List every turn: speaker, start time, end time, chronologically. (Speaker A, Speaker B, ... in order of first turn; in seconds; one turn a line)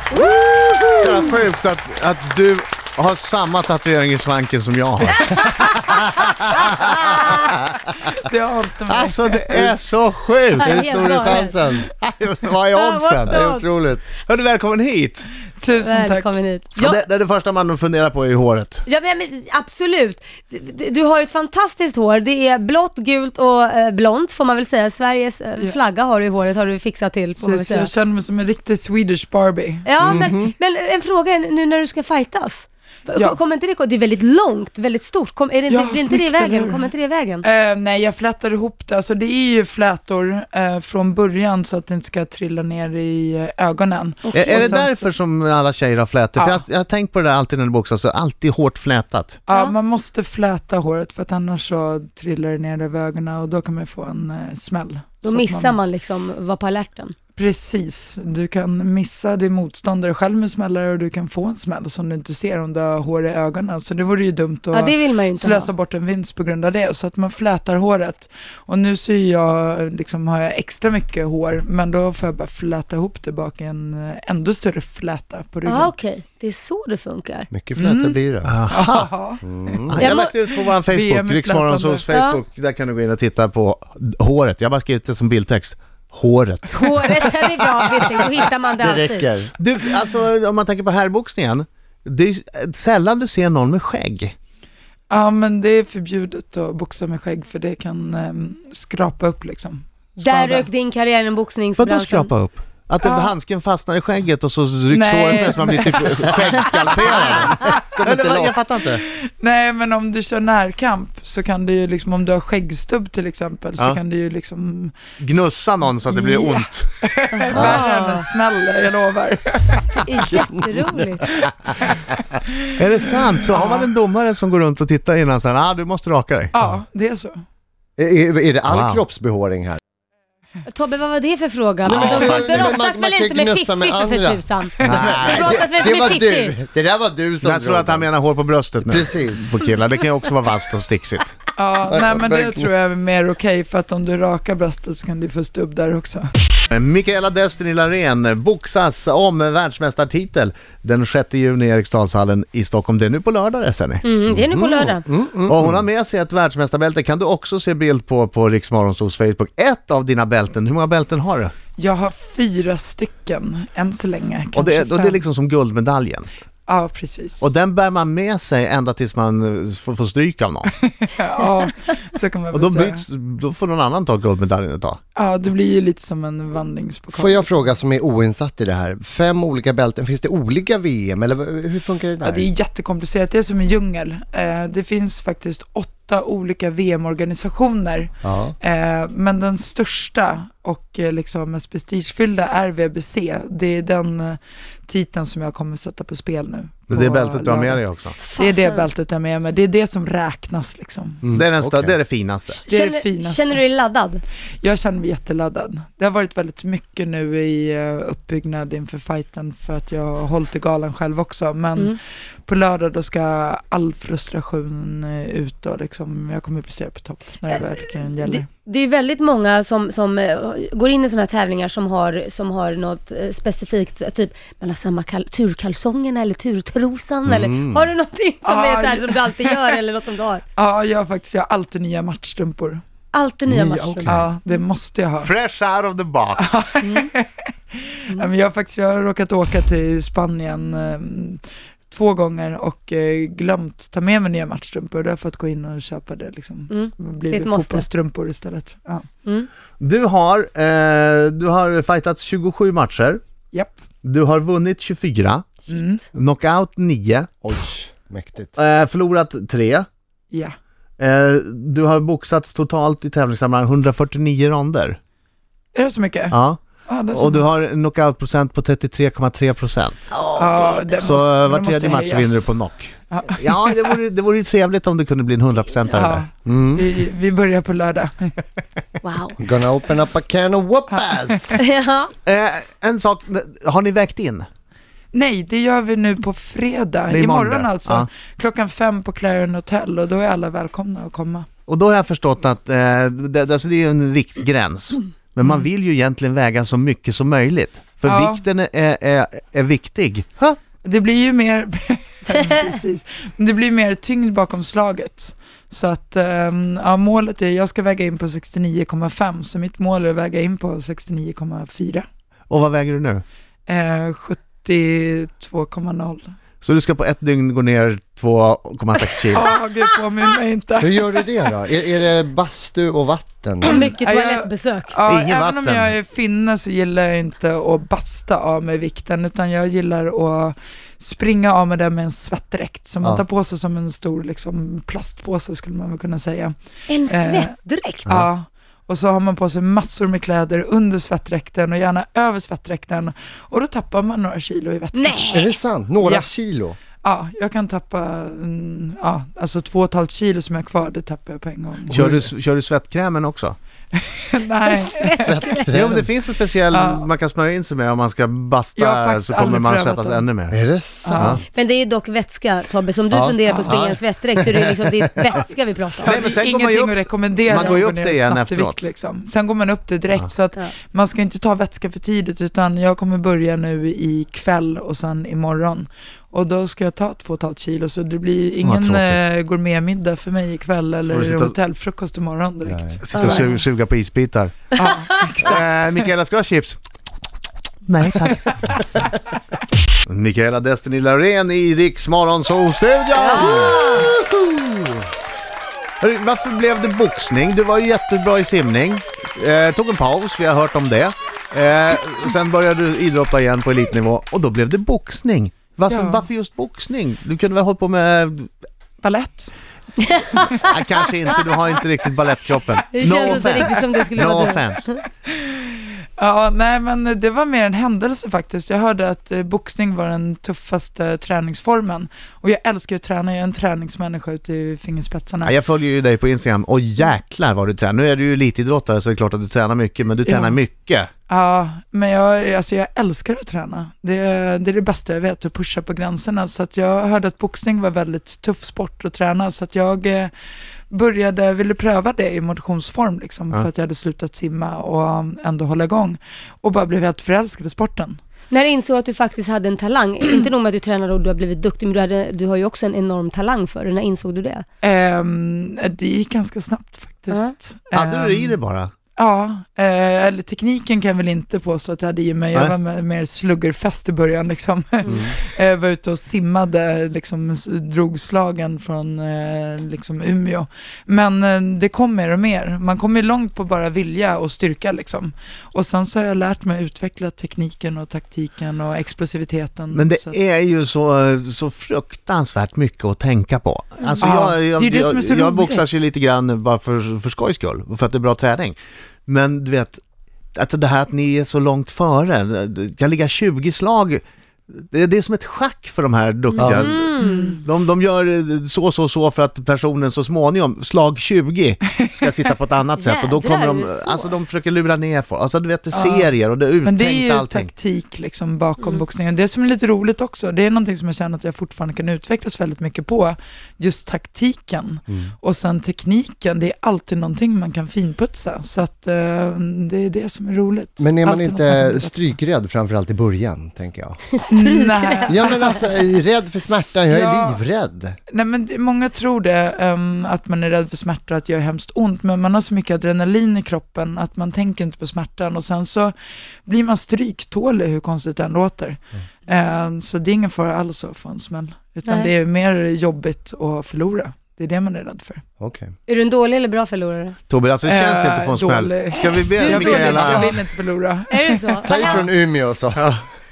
Speaker A: 0.1-1.3
Speaker B: 0.9-6.1
Speaker A: 5.2-6.1
Speaker A: 6.7-7.3
Speaker C: 7.9-9.7
Speaker B: 8.9-11.4
Speaker A: 10.6-11.6
Speaker D: 10.6-11.9
Speaker B: 12.0-13.5
Speaker A: 12.7-13.7
Speaker D: 13.2-14.0
Speaker B: 14.2-15.3
Speaker C: 15.6-16.4
Speaker A: 15.8-17.0
Speaker B: 16.8-18.8
Speaker A: 18.9-27.9
Speaker C: 27.4-29.9
Speaker A: 29.8-37.5
Speaker D: 30.0-30.5
Speaker C: 35.7-36.9
Speaker C: 37.4-45.0
Speaker A: 44.3-44.7
Speaker B: 44.3-49.4
Speaker C: 46.4-46.6
Speaker C: 49.5-55.8
Speaker A: 55.2-57.1
Speaker C: 57.4-75.9
Speaker A: 64.7-65.7
Speaker A: 75.7-77.5
Speaker D: 77.5-78.5
Speaker C: 77.8-78.2
Speaker B: 78.4-79.1
Speaker C: 78.7-79.4
Speaker D: 79.4-80.0
Speaker B: 79.9-87.3
Speaker A: 80.0-80.7
Speaker C: 80.8-82.1
Speaker A: 82.1-82.4
Speaker A: 86.7-89.3
Speaker D: 88.8-89.5
Speaker B: 89.6-94.3
Speaker C: 95.1-100.7
Speaker A: 100.2-102.3
Speaker B: 101.8-109.0
Speaker C: 103.0-103.3
Speaker C: 104.9-106.3
Speaker D: 106.2-108.7
Speaker C: 109.2-120.4
Speaker B: 115.2-116.9
Speaker A: 117.3-118.2
Speaker D: 117.5-117.8
Speaker A: 120.0-121.3
Speaker C: 121.5-122.6
Speaker B: 122.8-126.5
Speaker C: 123.4-123.8
Speaker C: 126.5-127.3
Speaker D: 128.0-129.8
Speaker B: 128.7-129.0
Speaker A: 130.7-136.6
Speaker D: 131.8-138.1
Speaker B: 131.9-132.4
Speaker B: 134.8-135.5
Speaker B: 137.4-141.3
Speaker D: 138.8-139.6
Speaker C: 141.6-146.3
Speaker D: 141.9-142.7
Speaker B: 146.7-154.0
Speaker A: 154.0-155.1
Speaker D: 154.5-155.8
Speaker B: 155.5-161.5
Speaker C: 161.8-165.2
Speaker B: 164.5-166.3
Speaker C: 166.7-167.4
Speaker B: 167.4-170.7
Speaker C: 171.0-173.0
Speaker B: 172.5-175.0
Speaker C: 175.1-177.7
Speaker D: 177.1-182.5
Speaker C: 182.2-197.8
Speaker D: 188.2-188.5
Speaker B: 196.9-198.2
Speaker A: 198.2-198.9
Speaker C: 198.3-201.2
Speaker D: 201.2-201.9
Speaker B: 201.3-202.6
Speaker A: 202.6-204.2
Speaker C: 202.7-203.6
Speaker C: 204.6-218.4
Speaker A: 218.2-230.4
Speaker D: 227.3-227.9
Speaker C: 228.4-229.8
Speaker C: 230.5-232.8
Speaker A: 233.1-234.1
Speaker D: 233.5-234.2
Speaker C: 234.0-235.3
Speaker B: 235.2-236.6
Speaker C: 236.4-249.1
Speaker A: 236.8-237.1
Speaker A: 246.7-247.8
Speaker B: 249.8-253.2
Speaker B: 254.0-255.5
Speaker C: 255.7-256.0
Speaker B: 256.1-257.3
Speaker D: 257.4-258.5
Speaker B: 258.6-259.9
Speaker B: 261.0-265.0
Speaker C: 265.7-267.5
Speaker B: 266.3-270.0
Speaker A: 270.1-271.1
Speaker C: 270.3-272.5
Speaker B: 271.0-276.2
Speaker C: 273.1-273.9
Speaker C: 275.9-278.4
Speaker D: 276.4-276.9
Speaker A: 279.0-279.4
Speaker D: 279.4-281.6
Speaker C: 280.9-281.6
Speaker A: 281.6-282.1
Speaker B: 282.2-284.5
Speaker C: 285.1-291.5
Speaker B: 287.1-288.1
Speaker B: 291.7-300.6
Speaker C: 298.0-298.4
Speaker C: 300.8-312.0
Speaker A: 302.3-302.7
Speaker B: 312.5-313.2
Speaker C: 313.7-316.3
Speaker B: 316.6-319.5
Speaker C: 319.3-321.2
Speaker D: 320.8-323.9
Speaker A: 323.6-325.0
Speaker C: 323.6-336.5
Speaker B: 325.1-325.9
Speaker A: 336.9-338.1
Speaker C: 337.1-337.5
Speaker C: 338.1-345.5
Speaker A: 344.9-345.5
Speaker D: 345.3-346.8
Speaker C: 346.0-346.3
Speaker C: 347.0-352.2
Speaker B: 351.9-353.6
Speaker C: 353.9-355.4
Speaker A: 354.6-355.7
Speaker D: 355.2-356.1
Speaker B: 355.7-360.6
Speaker C: 356.7-357.0
Speaker C: 358.8-360.3
Speaker D: 360.5-361.3
Speaker C: 361.0-361.4
Speaker B: 361.1-361.4
Speaker A: 361.5-366.2
Speaker D: 363.1-363.9
Speaker C: 363.5-363.8
Speaker D: 364.6-364.9
Speaker C: 366.0-383.5
Speaker B: 366.1-368.8
Speaker B: 378.6-379.2
Speaker B: 381.0-381.5
Speaker D: 382.6-383.0
Speaker B: 383.0-384.6
Speaker A: 383.1-383.5
Speaker C: 384.8-386.1
Speaker B: 385.4-386.8
Speaker B: 387.9-389.1
Speaker B: 390.1-395.0
Speaker A: 393.1-394.1
Speaker B: 396.0-408.5
Speaker C: 405.9-406.2
Speaker C: 409.0-409.5
Speaker A: 410.0-410.5
Speaker B: 410.4-414.9
Speaker A: 412.9-415.0
Speaker C: 413.1-413.4
Speaker C: 415.3-425.5
Speaker B: 425.4-431.1
Speaker C: 430.2-430.6
Speaker C: 431.3-440.3
Speaker C: 440.9-448.2
Speaker A: 448.5-454.6
Speaker C: 454.8-458.6
Speaker B: 457.9-458.9
Speaker C: 459.1-480.4
Speaker D: 465.1-465.3
Speaker B: 479.9-490.0
Speaker C: 484.2-486.0
Speaker B: 490.5-507.7
Speaker A: 496.5-497.6
Speaker D: 496.6-496.9
Speaker C: 497.2-497.6
Speaker A: 503.0-504.3
Speaker C: 505.9-506.3
Speaker C: 506.8-522.1
Speaker D: 521.0-524.2
Speaker A: 524.3-525.7
Speaker C: 524.5-525.9
Speaker D: 525.3-528.2
Speaker C: 527.1-527.6
Speaker C: 528.3-536.1
Speaker C: 536.6-545.4
Speaker A: 542.0-542.3
Speaker D: 545.6-545.9
Speaker A: 546.1-547.4
Speaker B: 547.5-550.6
Speaker C: 547.8-552.2
Speaker A: 549.6-550.5
Speaker A: 551.3-552.3
Speaker D: 551.8-553.0
Speaker B: 552.9-553.2